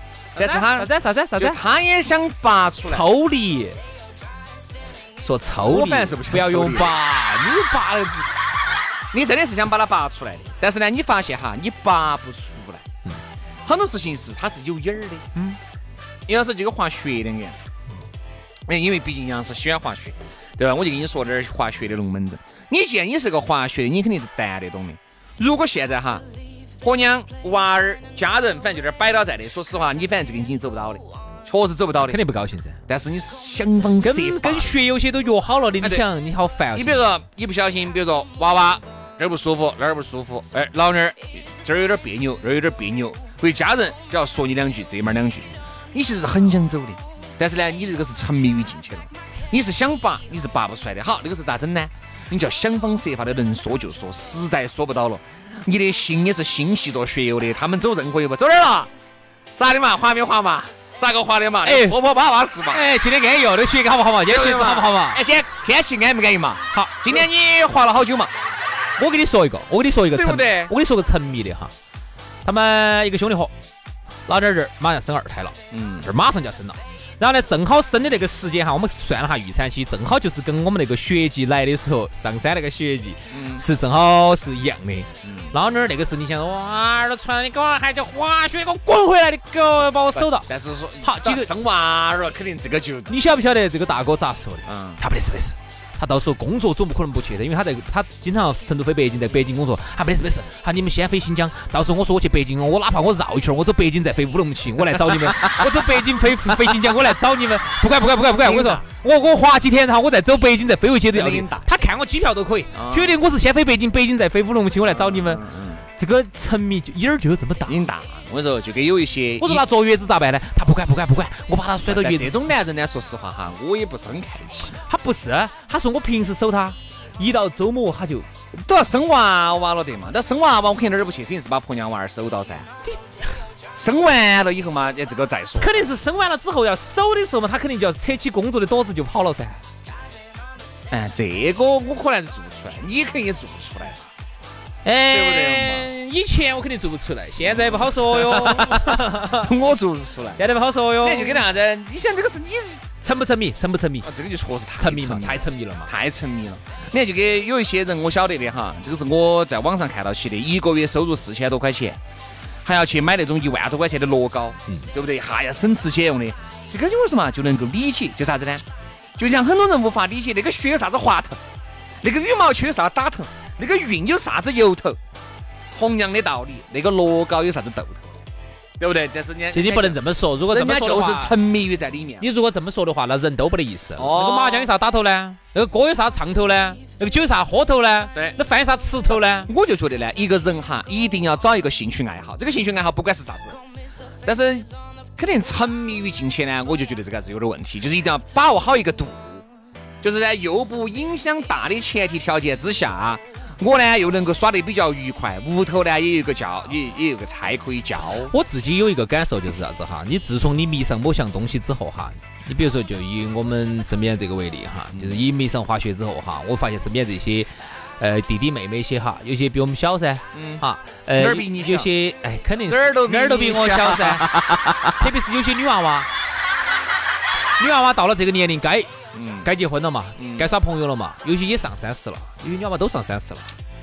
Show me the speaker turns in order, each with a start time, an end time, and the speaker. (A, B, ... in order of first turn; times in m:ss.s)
0:00.4-0:01.6 A
0:00.4-0:03.0 B
0:02.8-0:03.8 A
0:05.2-0:08.3 A
0:05.6-0:07.0 B
0:09.1-0:12.8 B
0:13.6-0:15.2 B
0:16.3-0:17.6 B
0:18.7-0:26.2 B
0:26.8-0:32.2 B
0:32.0-0:32.8 A
0:32.9-0:34.8 B
0:34.0-0:37.0 A
0:35.8-0:36.0 B
0:36.7-0:58.9 B
0:59.6-1:02.8 B
1:01.6-1:02.0 A
1:02.7-1:05.2 A
1:04.3-1:08.3 B
1:06.7-1:07.2 A
1:09.0-1:11.7 A
1:10.1-1:10.7 B
1:12.4-1:13.5 A
1:14.3-1:30.5 A
1:15.7-1:16.1 B
1:23.3-1:23.6 B
1:25.2-1:25.6 B
1:30.2-1:33.1 B
1:31.0-1:31.5 A
1:33.1-1:55.4 A
1:34.6-1:35.0 B
1:48.4-1:48.8 B
1:51.1-1:51.7 B
1:52.7-1:53.2 B
1:54.9-1:55.8 B
1:56.0-1:57.8 A
1:57.6-1:59.6 B
1:59.4-2:02.4 A
2:01.8-2:04.8 B
2:04.8-2:08.3 A
2:08.5-2:12.7 B
2:13.8-2:15.8 B
2:15.6-2:19.6 A
2:20.9-2:24.1 B
2:24.8-2:29.5 A
2:25.1-2:25.9 B
2:27.4-2:30.4 B
2:30.4-2:31.4 A
2:31.0-2:32.8 B
2:33.0-2:34.1 A
2:34.0-2:42.0 B
2:34.8-2:35.9 A
2:42.6-2:48.6 B
2:49.2-2:51.4 B
2:52.0-2:55.0 B
2:55.7-2:58.2 B
2:58.8-3:02.3 B
2:59.5-3:01.3 A
3:02.2-3:09.5 A
3:04.0-3:04.7 B
3:09.4-3:13.6 B
3:14.2-3:19.4 B
3:20.0-3:28.3 B
3:28.3-3:44.2 A
3:34.9-3:35.2 B
3:40.3-3:41.9 B
3:42.7-3:44.9 B
3:44.8-3:46.1 A
3:47.6-3:48.9 A
3:49.1-3:49.5 B
3:49.4-3:53.5 A
3:50.2-3:50.5 B